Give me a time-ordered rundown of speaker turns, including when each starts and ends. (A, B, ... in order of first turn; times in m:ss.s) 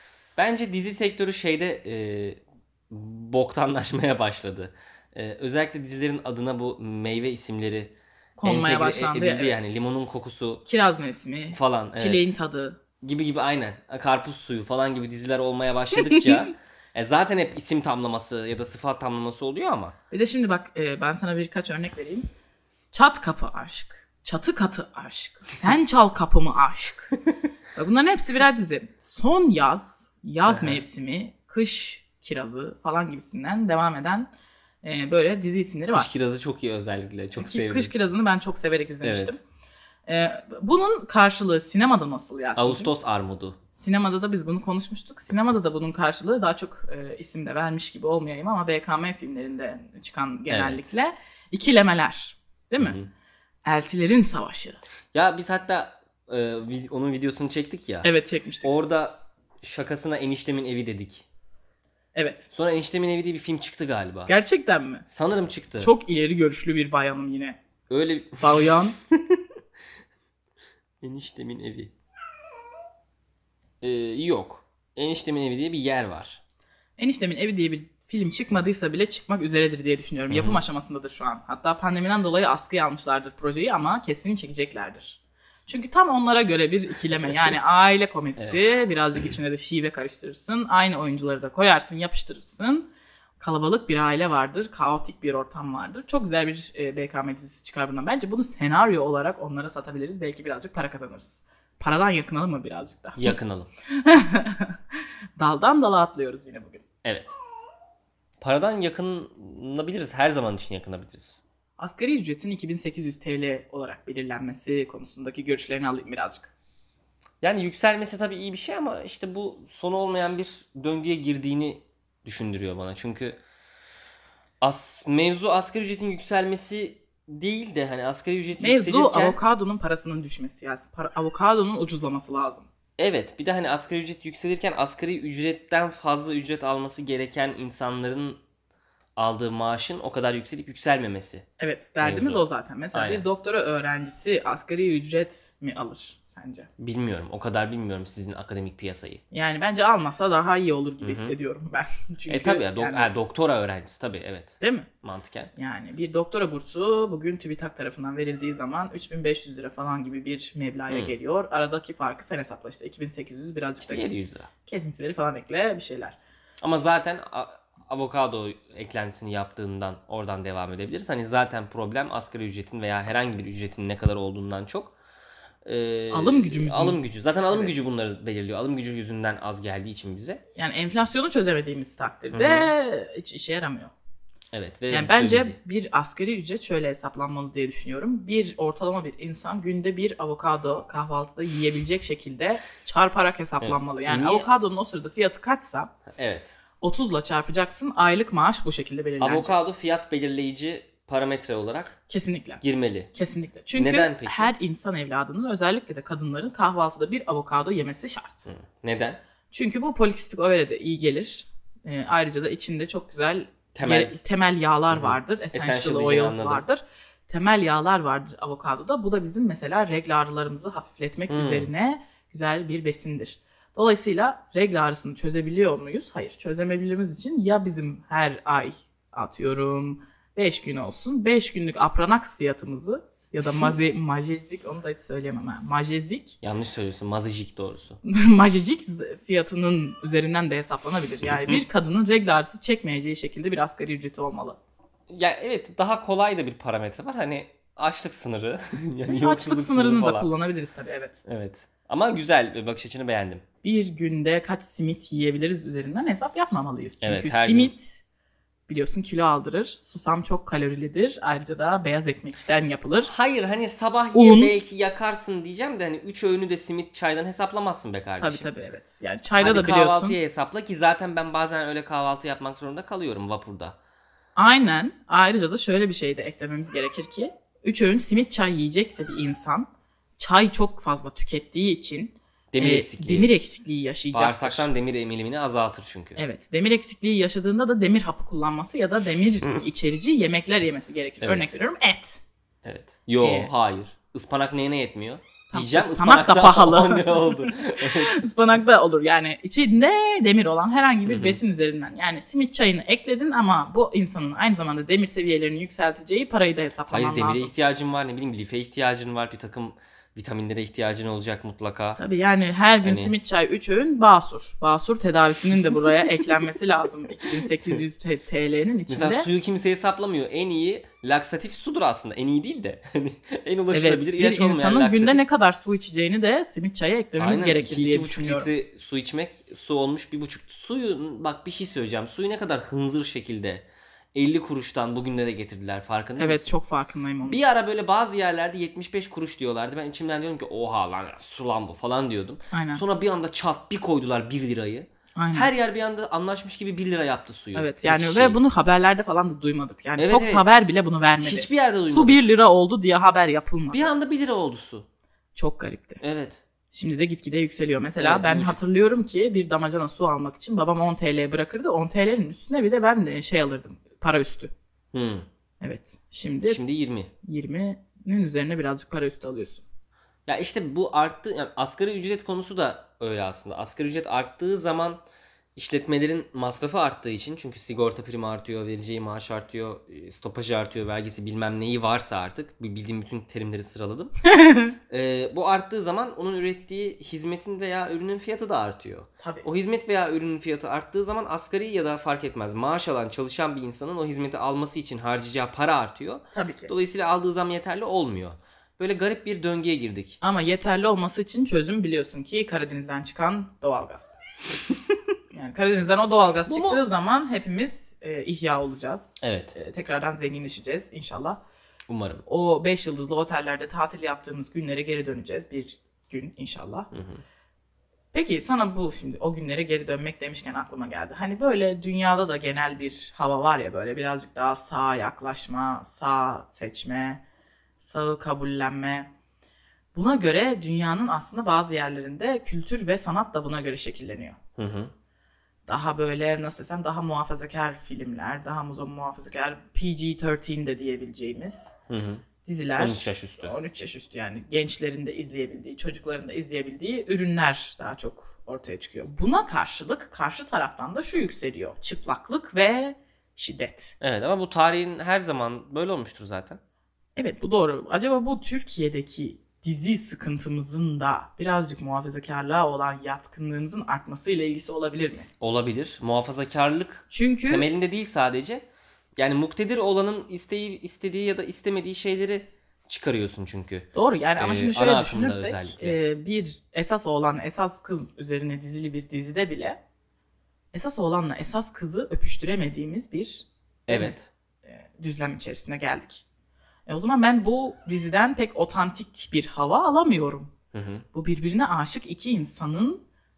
0:00.4-0:10.6 A
0:08.4-0:09.6 B
0:10.7-0:12.8 B
0:11.5-0:12.3 A
0:13.0-0:20.0 A
0:15.9-0:16.5 B
0:20.1-0:22.3 B
0:22.9-0:27.1 B
0:27.8-0:34.3 B
0:30.5-0:30.8 A
0:34.8-0:36.1 B
0:35.9-0:37.9 A
0:37.4-0:39.4 B
0:39.0-0:39.4 A
0:40.1-0:42.9 B
0:42.6-0:43.6 A
0:43.8-0:53.0 B
0:50.5-0:50.9 A
0:52.8-0:53.1 A
0:53.7-0:54.8 B
0:55.1-0:58.1 A
0:58.0-0:58.8 B
0:58.6-1:01.3 A
1:02.2-1:02.5 B
1:02.5-1:04.3 A
1:04.3-1:05.0 B
1:05.1-1:05.9 A
1:05.8-1:07.6 B
1:07.9-1:09.4 A
1:08.4-1:09.0 B
1:11.0-1:11.9 A
1:13.8-1:16.4 A
1:17.0-1:32.9 B
1:20.3-1:20.6 A
1:28.4-1:28.6 A
1:33.4-1:43.4 B
1:43.2-1:43.7 A
1:43.9-1:46.8 B
1:47.0-1:47.4 A
1:48.4-1:51.4 A
1:51.8-1:56.5 B
1:57.4-2:03.4 A
2:04.6-2:09.4 A
2:08.6-2:12.7 B
2:13.0-2:18.4 A
2:19.2-2:21.5 A
2:21.6-2:26.7 B
2:22.0-2:22.4 A
2:22.9-2:23.2 A
2:26.8-2:29.2 A
2:29.3-2:33.1 B
2:31.0-2:31.4 A
2:32.3-2:35.5 A
2:34.6-2:34.9 B
2:35.6-2:44.1 B
2:40.9-2:41.1 A
2:43.8-2:44.5 A
2:44.6-2:46.2 B
2:46.6-2:55.0 A
2:55.6-3:00.4 A
2:56.1-2:57.7 B
3:00.6-3:03.9 B
3:02.3-3:02.7 A
3:04.5-3:05.6 A
3:04.9-3:15.9 B
3:13.6-3:14.5 A
3:16.1-3:16.6 A
3:16.8-3:19.6 B
3:19.2-3:22.0 A
3:22.1-3:22.6 B
3:22.6-3:23.1 A
3:23.1-3:28.5 B
3:23.7-3:24.5 A
3:28.5-3:29.2 A
3:29.5-3:56.4 B
3:33.7-3:34.2 A
3:34.9-3:36.6 A
3:41.3-3:41.7 A
3:56.4-3:58.0 A
3:58.0-4:04.6 B
4:05.1-4:10.3 A
4:09.1-4:11.2 B
4:11.2-4:13.4 A
4:13.6-4:18.0 B
4:17.0-4:17.7 A
4:18.7-4:23.1 B
4:23.0-4:28.4 A
4:24.1-4:24.5 B
4:28.2-4:30.2 B
4:29.4-4:33.8 A
4:34.4-4:44.7 B
4:42.5-4:43.3 A
4:44.1-4:46.2 A
4:46.2-4:52.2 B
4:51.2-4:51.6 A
4:52.6-4:58.1 A
4:53.2-4:53.5 B
4:55.5-5:07.5 B
5:01.0-5:01.4 A
5:06.9-5:12.0 A
5:12.0-5:19.3 B
5:12.8-5:13.1 A
5:18.9-5:25.2 A
5:23.7-5:28.5 B
5:27.2-5:36.5 A
5:36.2-5:37.4 B
5:37.3-5:48.4 A
5:42.5-5:42.8 B
5:45.2-5:45.5 B
5:47.5-5:53.9 B
5:50.0-5:50.5 A
5:51.2-5:52.2 A
5:53.7-5:54.9 A
5:55.4-5:56.0 B
5:56.0-5:56.4 A
5:56.7-6:04.5 B
5:58.0-5:58.6 A
6:04.9-6:05.3 A
6:05.6-6:06.6 B
6:06.5-6:07.1 A
6:07.2-6:09.6 B
6:10.3-6:15.0 A
6:15.6-6:24.1 A
6:24.3-6:24.8 B
6:24.9-6:40.2 A
6:29.2-6:29.4 B
6:36.3-6:36.7 B
6:40.2-6:44.2 B
6:45.3-6:51.4 B
6:46.5-6:46.8 A
6:49.2-6:49.6 A
6:51.9-6:52.2 A
6:52.3-6:56.9 B
6:56.9-6:57.2 A
6:58.1-7:07.2 B
7:07.8-7:09.1 B
7:09.9-7:14.4 B
7:14.6-7:14.9 A
7:15.7-7:21.7 B
7:21.9-7:22.2 A
7:22.4-7:33.9 B
7:22.8-7:23.6 A
7:34.0-7:36.6 A
7:37.2-7:45.3 B
7:45.4-7:48.6 A
7:47.1-7:47.7 B
7:49.2-7:56.0 A
7:53.9-7:59.8 B
8:00.7-8:04.1 B
8:03.9-8:04.3 A
8:04.7-8:06.2 B
8:06.9-8:10.5 B
8:10.7-8:11.0 A
8:11.1-8:13.0 B